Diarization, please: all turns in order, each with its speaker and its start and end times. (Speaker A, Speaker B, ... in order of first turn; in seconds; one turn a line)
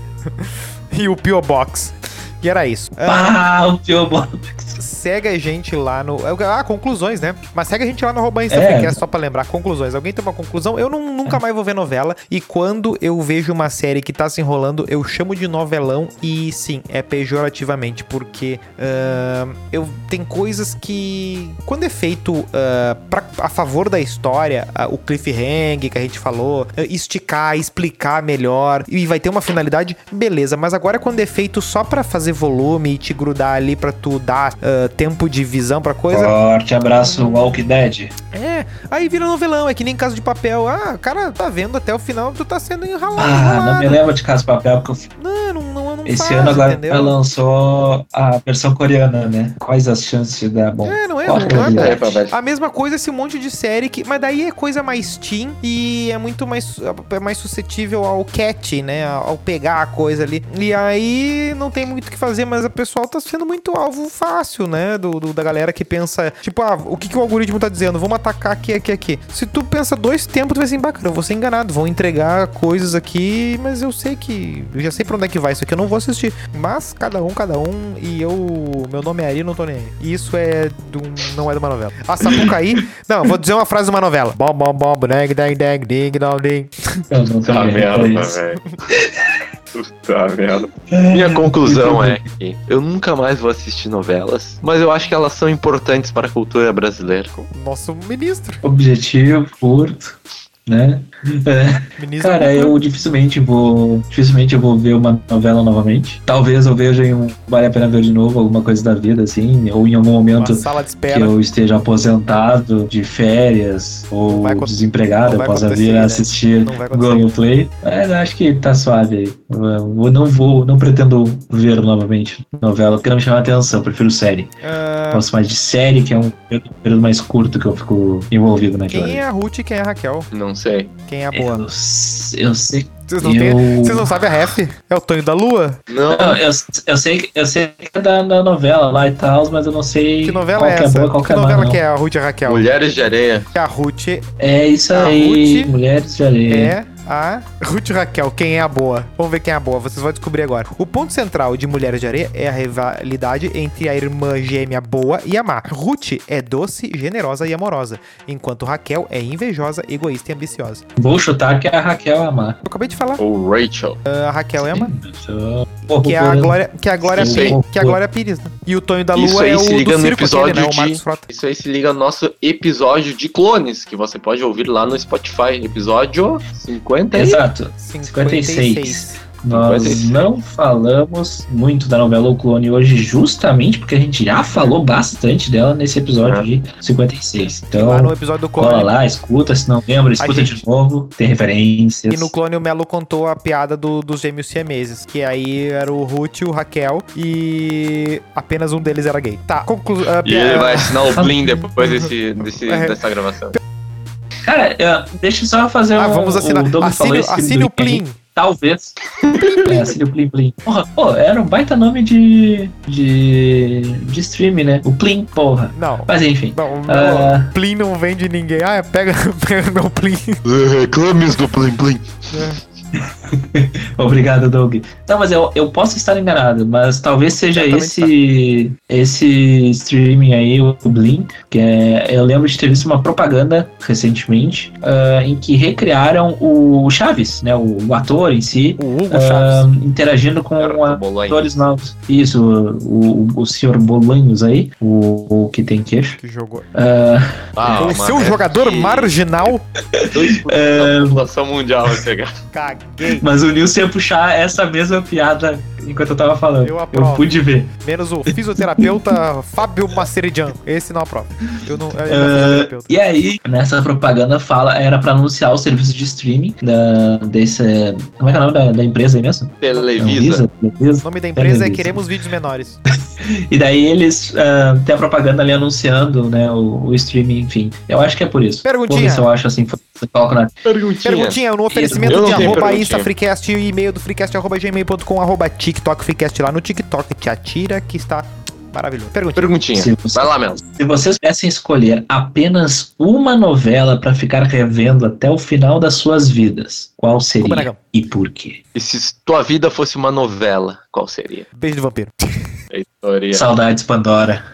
Speaker A: 0.4-3.4
Speaker B: 3.1-4.8
Speaker A: 4.8-36.4
Speaker B: 8.5-9.0
Speaker B: 36.1-38.1
Speaker A: 37.0-37.8
Speaker A: 38.3-44.0
Speaker B: 43.2-45.1
Speaker A: 45.2-47.2
Speaker B: 46.0-52.2
Speaker A: 50.9-86.7
Speaker C: 51.4-52.4
Speaker B: 87.1-88.4
Speaker C: 87.5-88.6
Speaker B: 88.9-89.3
Speaker C: 89.7-97.3
Speaker B: 90.9-92.2
Speaker A: 97.3-98.6
Speaker B: 98.6-124.5
Speaker A: 102.0-102.8
Speaker A: 110.4-111.3
Speaker A: 114.3-117.4
Speaker A: 124.6-125.3
Speaker B: 125.1-129.2
Speaker A: 128.9-130.3
Speaker C: 130.3-130.9
Speaker A: 131.1-131.7
Speaker B: 131.3-134.1
Speaker A: 133.1-135.8
Speaker C: 135.9-136.4
Speaker B: 136.1-141.8
Speaker A: 140.2-142.7
Speaker C: 142.5-143.5
Speaker A: 143.6-144.3
Speaker B: 144.4-146.8
Speaker A: 144.9-145.7
Speaker A: 146.5-160.8
Speaker B: 161.0-162.6
Speaker A: 162.6-163.2
Speaker C: 163.2-164.0
Speaker A: 164.1-164.9
Speaker B: 164.6-168.0
Speaker A: 165.9-171.3
Speaker C: 167.1-167.6
Speaker C: 169.2-177.4
Speaker B: 177.1-192.3
Speaker A: 177.8-179.2
Speaker C: 179.5-180.3
Speaker A: 184.5-184.8
Speaker C: 186.2-186.5
Speaker A: 187.5-188.9
Speaker A: 190.2-190.6
Speaker A: 192.1-202.1
Speaker C: 200.2-203.6
Speaker A: 202.7-203.0
Speaker B: 204.4-208.9
Speaker A: 206.0-208.2
Speaker C: 209.2-209.9
Speaker B: 209.6-217.5
Speaker A: 215.7-220.4
Speaker C: 220.4-222.5
Speaker A: 222.3-222.6
Speaker B: 222.9-246.2
Speaker A: 227.6-228.1
Speaker A: 238.8-239.7
Speaker C: 240.6-241.6
Speaker A: 246.2-246.7
Speaker B: 246.7-247.5
Speaker C: 247.6-249.2
Speaker A: 247.8-249.6
Speaker B: 249.9-251.2
Speaker C: 250.1-252.3
Speaker A: 252.5-253.3
Speaker B: 253.2-257.7
Speaker A: 256.6-262.9
Speaker B: 258.3-259.1
Speaker B: 261.5-272.0
Speaker C: 269.6-270.4
Speaker A: 271.0-272.8
Speaker B: 273.2-280.6
Speaker A: 278.6-279.3
Speaker C: 280.6-281.4
Speaker A: 281.0-289.5
Speaker B: 281.7-282.8
Speaker C: 282.1-283.1
Speaker C: 289.4-290.6
Speaker B: 289.8-298.6
Speaker A: 297.4-297.8
Speaker C: 298.8-301.5
Speaker A: 301.6-302.3
Speaker C: 302.7-303.5
Speaker B: 303.3-304.4